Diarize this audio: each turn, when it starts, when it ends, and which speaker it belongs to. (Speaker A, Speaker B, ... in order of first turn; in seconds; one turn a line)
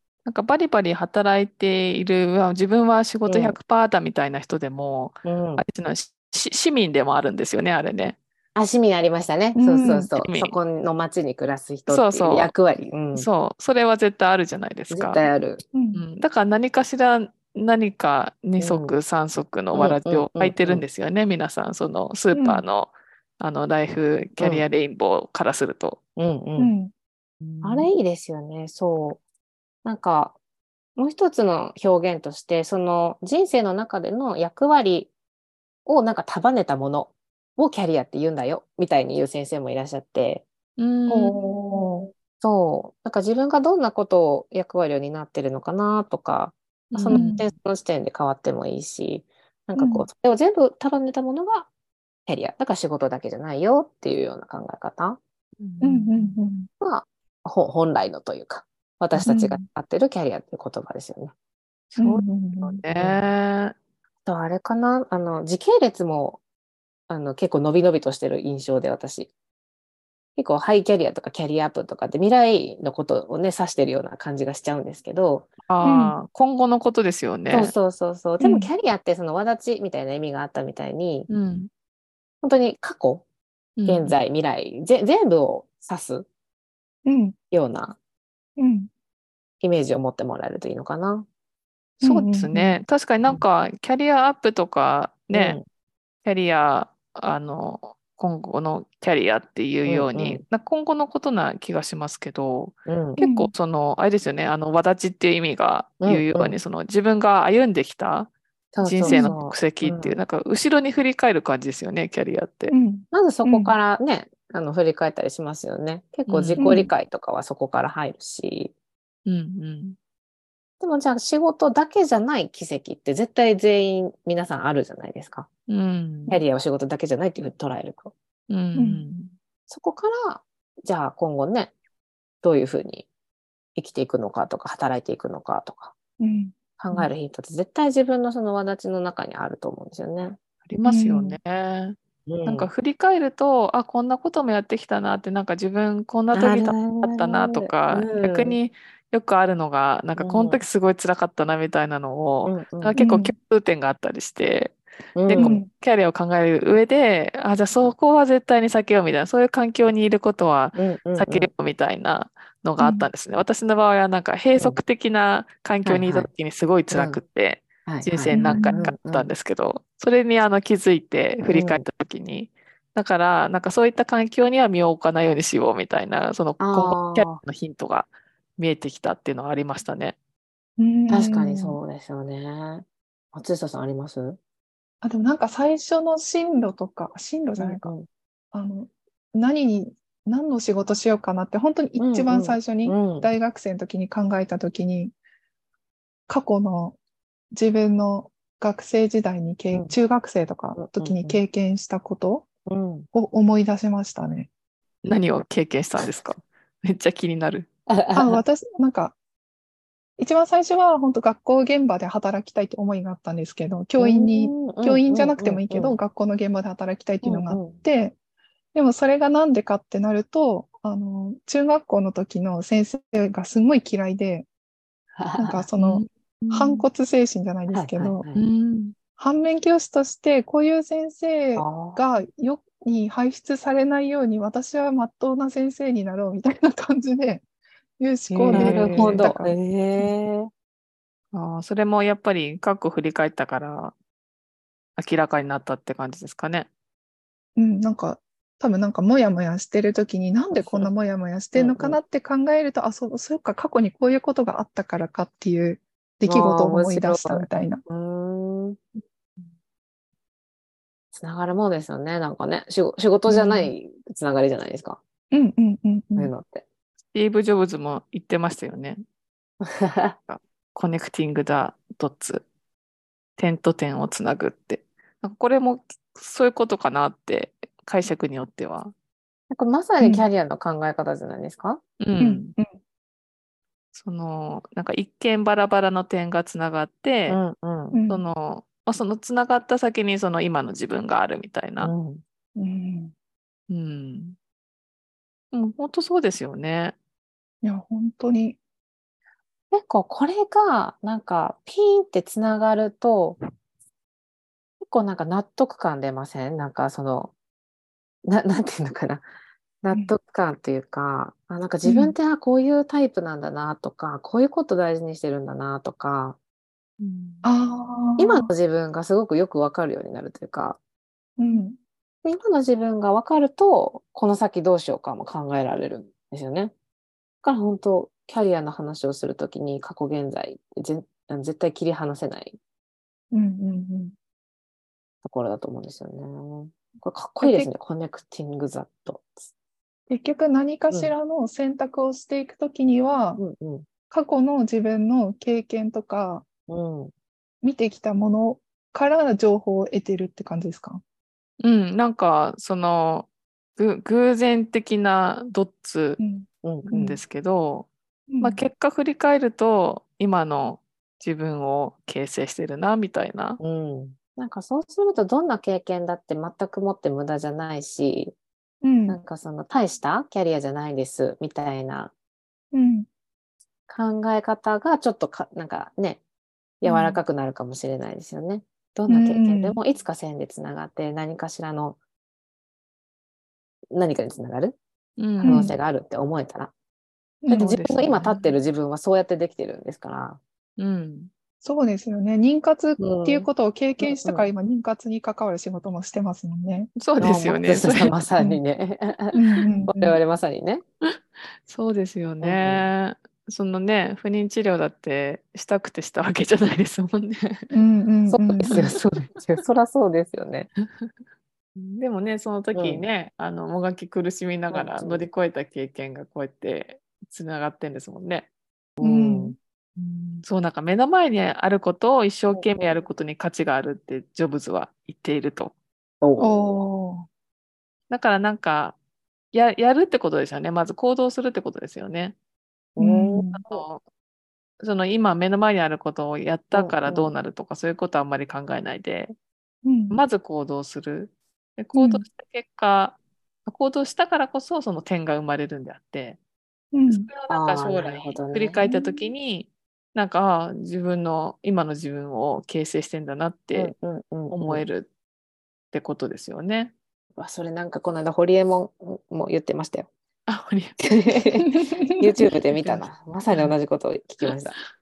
Speaker A: 0.2-8.2
Speaker B: 3.2-3.6
Speaker B: 5.2-5.6
Speaker B: 8.5-13.3
Speaker C: 9.5-10.1
Speaker A: 10.2-10.6
Speaker A: 11.9-12.5
Speaker A: 13.1-15.2
Speaker B: 14.9-15.6
Speaker C: 15.7-16.0
Speaker A: 15.9-26.0
Speaker B: 18.6-18.9
Speaker B: 19.7-20.8
Speaker C: 22.3-22.6
Speaker B: 24.4-24.6
Speaker B: 26.1-26.7
Speaker C: 26.6-26.9
Speaker A: 27.4-27.9
Speaker B: 27.6-29.2
Speaker B: 29.8-30.4
Speaker B: 30.9-35.1
Speaker B: 35.9-40.4
Speaker A: 40.8-41.4
Speaker C: 41.1-42.1
Speaker B: 42.4-51.7
Speaker A: 46.9-47.4
Speaker C: 47.1-47.4
Speaker C: 49.7-50.0
Speaker B: 52.3-55.2
Speaker A: 55.6-56.4
Speaker C: 55.8-56.7
Speaker B: 56.8-61.3
Speaker C: 59.2-59.6
Speaker A: 61.9-63.7
Speaker C: 62.0-62.8
Speaker B: 62.9-63.2
Speaker B: 64.2-66.4
Speaker B: 67.1-69.3
Speaker B: 70.3-75.5
Speaker A: 75.7-77.7
Speaker C: 75.8-76.1
Speaker B: 77.5-81.3
Speaker C: 78.4-78.7
Speaker A: 81.3-81.7
Speaker B: 82.4-83.2
Speaker A: 83.8-84.2
Speaker B: 83.8-86.3
Speaker C: 87.0-87.3
Speaker B: 87.5-88.0
Speaker C: 88.6-88.9
Speaker B: 89.6-91.3
Speaker A: 92.0-95.6
Speaker C: 92.0-92.8
Speaker B: 95.3-95.6
Speaker A: 96.2-108.3
Speaker B: 99.8-100.4
Speaker B: 102.9-103.2
Speaker C: 103.2-103.5
Speaker B: 106.0-106.5
Speaker B: 108.7-110.2
Speaker A: 108.8-112.7
Speaker C: 109.0-109.3
Speaker C: 112.7-113.8
Speaker B: 113.1-118.7
Speaker A: 116.3-116.7
Speaker C: 116.6-116.9
Speaker A: 119.2-120.0
Speaker B: 120.8-125.5
Speaker A: 125.7-126.4
Speaker B: 126.3-128.1
Speaker A: 128.5-129.3
Speaker C: 128.7-129.0
Speaker B: 129.7-131.7
Speaker B: 132.4-133.1
Speaker B: 133.8-135.9
Speaker C: 136.2-136.5
Speaker B: 136.8-140.4
Speaker A: 140.7-180.2
Speaker C: 140.8-141.4
Speaker B: 142.2-142.7
Speaker B: 146.3-148.6
Speaker B: 150.2-150.6
Speaker B: 152.4-153.0
Speaker C: 152.9-153.3
Speaker B: 155.2-155.6
Speaker C: 155.3-155.7
Speaker B: 160.7-161.5
Speaker C: 162.8-163.1
Speaker B: 165.8-166.3
Speaker B: 166.9-167.2
Speaker B: 167.8-169.3
Speaker C: 168.3-168.7
Speaker B: 171.5-171.8
Speaker B: 176.6-177.4
Speaker C: 180.8-181.8
Speaker B: 181.1-184.4
Speaker C: 185.0-187.9
Speaker B: 187.6-188.1
Speaker C: 188.5-195.1
Speaker B: 192.0-193.3
Speaker C: 196.3-196.9
Speaker C: 197.5-202.5
Speaker B: 200.8-201.4
Speaker B: 202.7-203.1
Speaker C: 203.1-204.5
Speaker A: 205.0-207.7
Speaker B: 207.9-208.4
Speaker C: 208.1-209.1
Speaker C: 210.2-218.1
Speaker B: 214.0-216.0
Speaker B: 217.2-217.8
Speaker C: 218.7-224.5
Speaker B: 225.2-225.7
Speaker C: 225.4-228.2
Speaker A: 225.8-226.8
Speaker B: 227.7-228.4
Speaker A: 228.3-228.9
Speaker C: 229.2-237.4
Speaker B: 231.6-232.0
Speaker C: 238.0-239.5
Speaker B: 238.3-240.5
Speaker A: 238.5-239.2
Speaker A: 241.3-243.9
Speaker A: 245.0-246.7
Speaker C: 247.6-257.8
Speaker B: 250.6-250.9
Speaker B: 251.5-252.0
Speaker B: 256.2-258.8
Speaker B: 261.1-265.0
Speaker C: 263.3-263.7
Speaker C: 265.3-266.3
Speaker B: 266.1-266.6
Speaker A: 267.1-269.0
Speaker B: 269.6-270.2
Speaker A: 270.3-272.4
Speaker A: 273.4-278.9
Speaker B: 279.5-281.8
Speaker C: 280.0-280.3
Speaker A: 282.0-282.5
Speaker C: 282.2-282.7
Speaker A: 283.9-287.4
Speaker B: 287.3-288.0
Speaker C: 287.9-288.2
Speaker A: 288.1-291.9
Speaker B: 291.8-292.2
Speaker C: 292.6-293.1
Speaker A: 293.7-294.4
Speaker A: 295.5-296.9
Speaker C: 297.6-298.6
Speaker B: 299.7-303.4
Speaker B: 304.8-307.3
Speaker B: 308.2-309.2
Speaker B: 309.8-316.4
Speaker C: 311.8-312.1
Speaker A: 317.0-317.4
Speaker C: 317.4-318.5
Speaker B: 318.2-320.8
Speaker C: 321.4-321.8
Speaker B: 322.2-326.7
Speaker B: 327.4-332.6
Speaker C: 333.3-334.1
Speaker B: 335.2-339.5
Speaker C: 337.4-337.7
Speaker C: 340.1-343.4
Speaker B: 343.4-343.9
Speaker C: 344.1-346.4
Speaker B: 346.7-347.1
Speaker C: 347.6-351.0
Speaker A: 351.6-356.2
Speaker C: 356.2-357.2
Speaker B: 356.6-356.9
Speaker A: 356.9-357.9
Speaker C: 358.3-358.6
Speaker A: 358.4-363.6
Speaker B: 363.6-368.3
Speaker C: 368.8-369.2
Speaker B: 369.1-372.1
Speaker C: 372.7-373.1
Speaker B: 373.9-376.2
Speaker B: 376.8-382.0
Speaker C: 376.8-377.2
Speaker C: 379.1-379.8
Speaker B: 383.9-384.8
Speaker A: 385.2-385.6
Speaker B: 385.4-386.7
Speaker C: 385.4-385.8
Speaker C: 387.4-387.8
Speaker B: 387.5-390.4
Speaker A: 387.5-388.5
Speaker A: 390.8-391.3
Speaker C: 391.6-396.9
Speaker B: 393.0-393.5
Speaker B: 394.0-394.5
Speaker A: 396.9-398.1
Speaker B: 397.2-400.8
Speaker C: 399.3-400.2
Speaker A: 401.6-407.7
Speaker B: 402.4-402.9
Speaker C: 407.7-408.9
Speaker B: 408.3-410.7
Speaker A: 411.8-418.5
Speaker B: 412.7-413.0
Speaker B: 414.7-415.3
Speaker B: 419.0-419.5
Speaker C: 419.0-419.6
Speaker A: 420.0-425.7
Speaker B: 422.5-423.0
Speaker B: 426.2-426.8
Speaker C: 426.4-427.3
Speaker A: 428.1-429.0
Speaker A: 429.5-432.4
Speaker B: 432.9-433.8
Speaker C: 433.0-433.6
Speaker A: 433.6-434.0
Speaker A: 434.8-439.3
Speaker B: 436.7-437.3
Speaker C: 439.8-440.2
Speaker A: 440.1-446.4
Speaker C: 441.9-442.2
Speaker C: 446.9-447.3
Speaker A: 447.1-453.9
Speaker B: 447.5-448.8
Speaker C: 448.8-449.3
Speaker B: 453.7-454.8
Speaker A: 454.5-455.1
Speaker A: 455.9-456.9
Speaker B: 457.4-460.1
Speaker A: 460.5-461.1
Speaker B: 461.0-464.8
Speaker C: 461.6-462.2
Speaker A: 462.8-463.7